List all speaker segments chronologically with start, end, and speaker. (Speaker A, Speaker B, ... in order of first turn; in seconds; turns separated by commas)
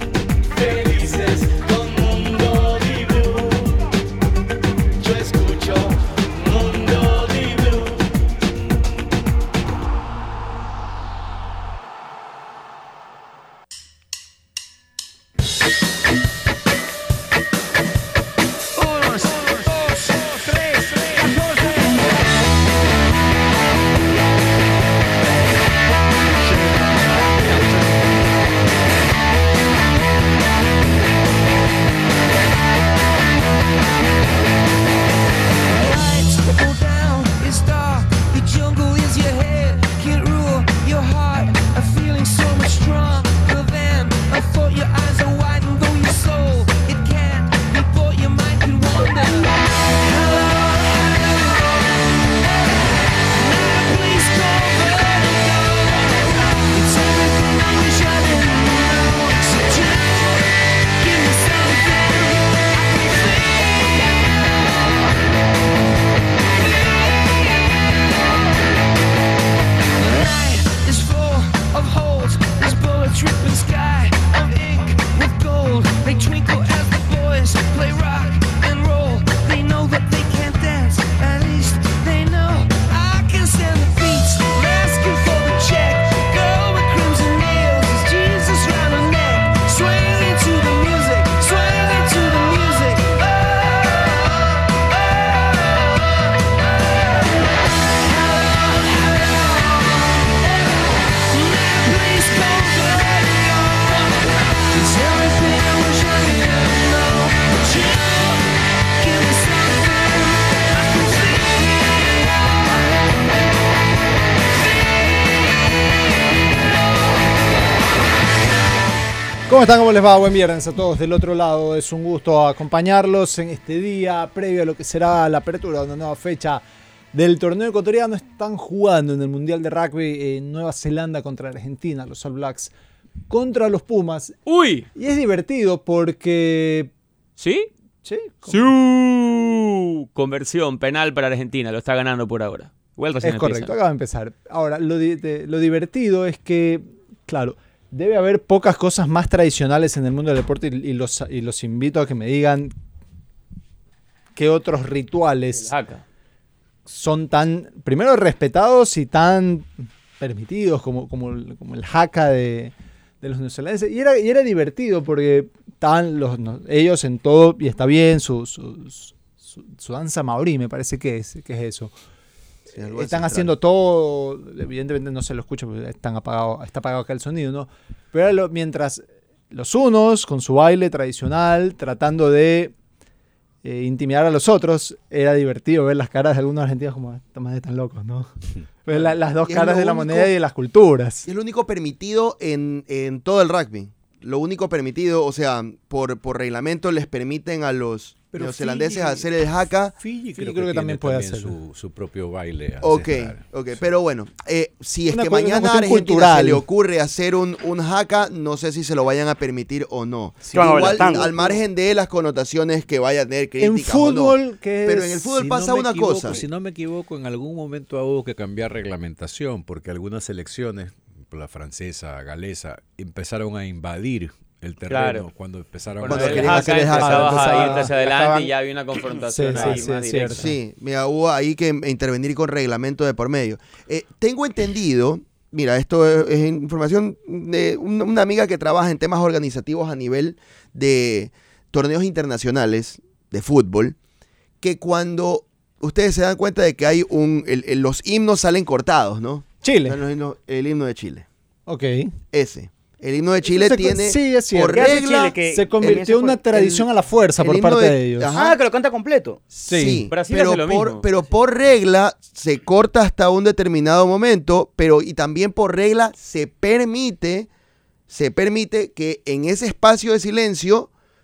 Speaker A: 0.5-3.7, Speaker A: 5.0-7.9, Speaker B: 18.7-22.1, Speaker B: 35.8-64.2, Speaker B: 66.5-67.8, Speaker B: 70.0-94.6, Speaker B: 95.3-96.2, Speaker B: 97.9-112.3, Speaker B: 114.7-115.1, Speaker C: 119.5-132.7, Speaker C: 133.3-134.3, Speaker D: 134.5-134.8, Speaker C: 134.9-136.9, Speaker D: 137.4-137.7, Speaker C: 138.0-138.7, Speaker D: 138.5-143.7, Speaker C: 143.2-152.7, Speaker C: 154.3-155.7, Speaker D: 155.6-156.0, Speaker C: 156.9-171.9, Speaker E: 172.7-173.6, Speaker C: 172.9-182.7, Speaker C: 183.6-188.3, Speaker C: 188.8-191.3, Speaker E: 189.4-190.3, Speaker E: 191.2-199.9, Speaker F: 198.3-199.2, Speaker F: 200.0-203.4, Speaker C: 200.3-201.6, Speaker E: 202.8-216.4, Speaker C: 205.1-206.6, Speaker F: 210.5-211.2, Speaker G: 210.5-211.4, Speaker C: 213.6-216.4, Speaker F: 215.5-227.1, Speaker D: 224.9-225.3, Speaker D: 226.0-230.5, Speaker E: 226.0-228.2, Speaker C: 226.2-228.3, Speaker C: 229.2-230.5, Speaker E: 230.3-243.9, Speaker E: 244.6-251.2, Speaker C: 249.6-250.0, Speaker C: 251.7-252.1, Speaker E: 252.3-256.9, Speaker C: 253.4-258.3, Speaker G: 254.7-256.7, Speaker E: 257.4-258.6, Speaker G: 258.3-259.4, Speaker E: 259.5-267.5, Speaker C: 259.6-260.1, Speaker D: 260.1-261.1, Speaker E: 268.1-270.9